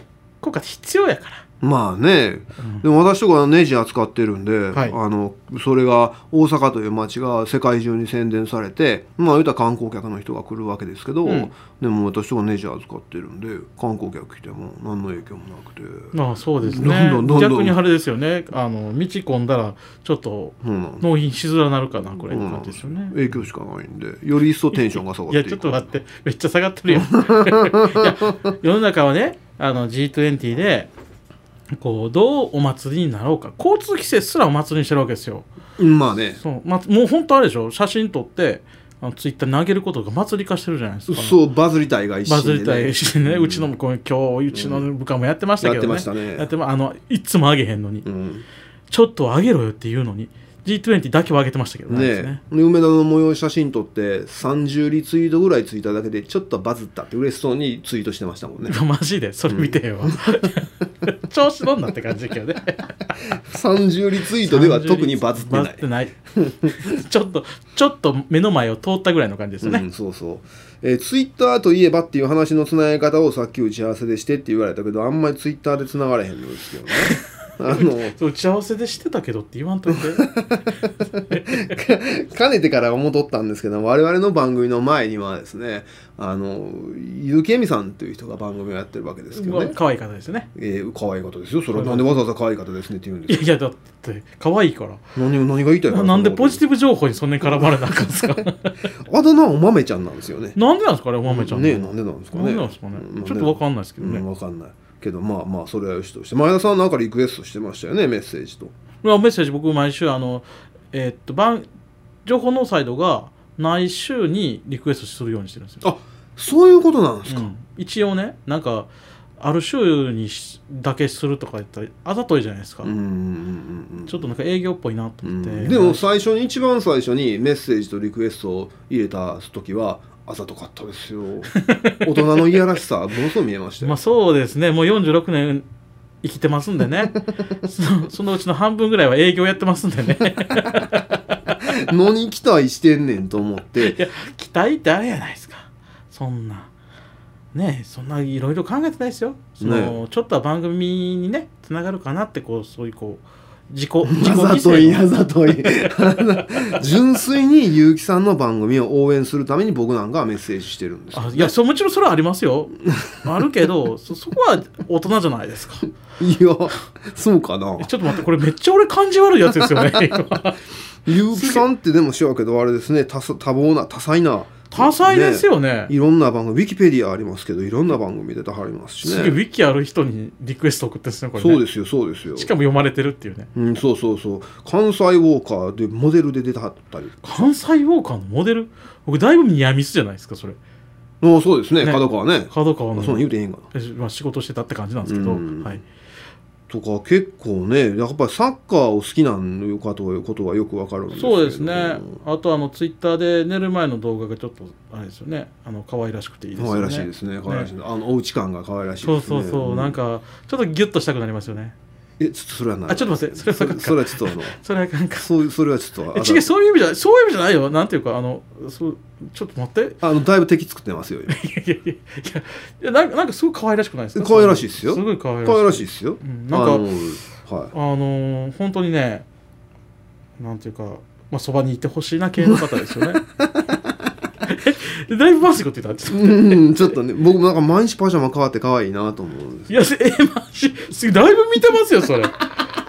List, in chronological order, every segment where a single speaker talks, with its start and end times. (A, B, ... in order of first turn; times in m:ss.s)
0:00.4-0:01.4 A
0:01.6-0:17.8 B
0:02.6-0:02.8 A
0:11.2-0:11.5 A
0:16.1-0:23.2 A
0:20.6-0:21.0 B
0:22.3-0:25.8 B
0:25.3-0:30.9 A
0:27.0-0:28.5 B
0:31.7-0:35.5 A
0:35.8-0:36.4 B
0:36.4-0:41.4 A
0:41.1-0:43.7 B
0:42.3-0:48.1 A
0:44.5-0:44.9 B
0:45.6-0:46.5 B
0:48.0-0:48.4 B
0:48.9-0:52.4 A
0:51.9-0:58.8 B
0:58.6-1:03.1 A
0:59.5-1:00.1 B
1:03.3-1:05.8 B
1:04.4-1:09.9 A
1:06.4-1:07.0 B
1:09.6-1:18.2 B
1:17.7-1:20.3 A
1:20.2-1:29.8 B
1:21.3-1:21.6 A
1:29.3-1:30.5 A
1:30.5-1:33.5 B
1:31.8-1:32.2 A
1:33.3-1:35.0 A
1:35.2-1:36.6 B
1:35.9-1:38.8 A
1:37.4-1:38.3 B
1:39.0-1:40.6 B
1:40.6-1:44.2 A
1:41.2-1:48.7 B
1:49.0-1:51.7 A
1:52.2-1:55.8 A
1:55.8-1:57.5 B
1:57.3-2:02.9 A
2:02.8-2:04.3 B
2:04.1-2:06.0 A
2:05.2-2:14.0 B
2:11.6-2:12.6 A
2:13.8-2:15.7 A
2:16.2-2:21.0 A
2:20.5-2:20.9 B
2:21.6-2:24.0 B
2:23.8-2:26.7 A
2:27.5-2:36.8 A
2:29.6-2:30.0 B
2:34.1-2:41.5 B
2:41.1-2:45.9 A
2:46.2-2:47.9 B
2:47.8-2:51.6 A
2:51.1-2:59.4 B
2:54.7-2:55.9 A
2:59.0-3:01.6 A
3:01.4-3:02.5 B
3:02.4-3:03.5 A
3:03.6-3:07.5 B
3:07.2-3:10.6 A
3:11.2-3:13.7 B
3:11.8-3:15.8 A
3:15.0-3:15.8 B
3:16.7-3:22.2 B
3:21.1-3:27.7 A
3:26.6-3:30.0 B
3:29.0-3:31.8 A
3:32.2-3:34.6 B
3:32.9-3:35.3 A
3:35.2-3:36.5 B
3:36.1-3:40.0 A
3:40.0-3:41.4 B
3:41.3-3:46.9 A
3:44.2-3:47.7 B
3:47.7-3:49.3 A
3:50.4-3:53.2 A
3:53.4-3:53.8 B
3:54.4-3:56.8 A
3:56.1-3:59.7 B
3:59.7-4:02.5 A